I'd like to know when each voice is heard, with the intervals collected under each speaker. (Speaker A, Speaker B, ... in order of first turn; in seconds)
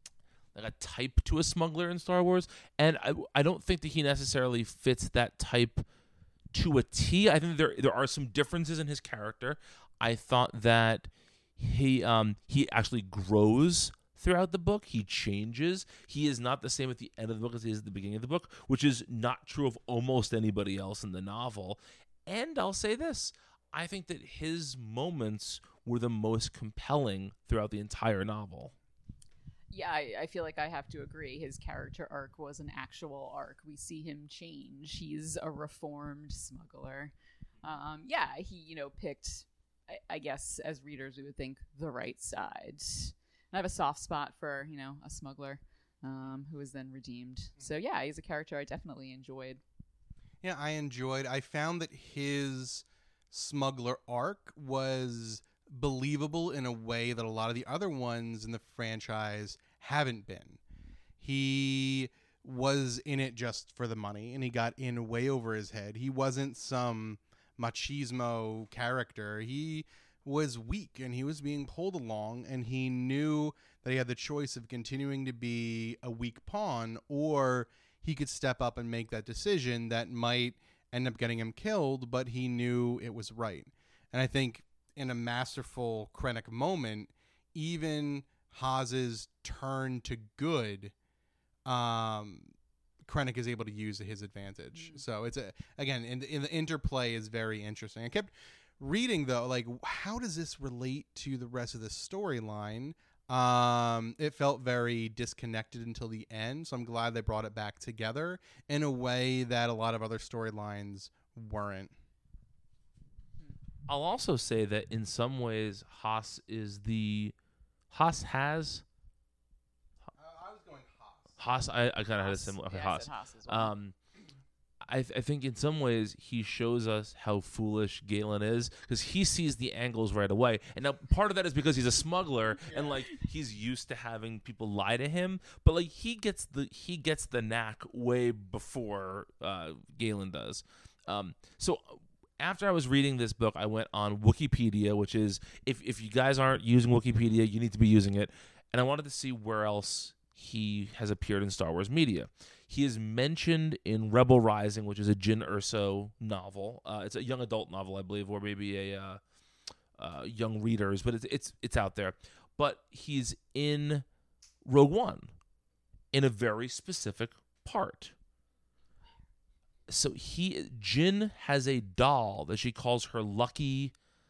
Speaker A: 0.5-5.8, 6.5-28.7, 113.9-117.3, 117.9-118.8, 121.4-123.9, 124.8-159.2, 160.0-164.0, 164.6-165.3, 166.1-168.1, 169.9-173.9
Speaker B: 29.7-49.6, 94.7-95.0, 122.2-123.7
Speaker C: 50.4-60.6, 61.2-90.9, 91.6-111.9, 120.1-121.4, 132.7-133.0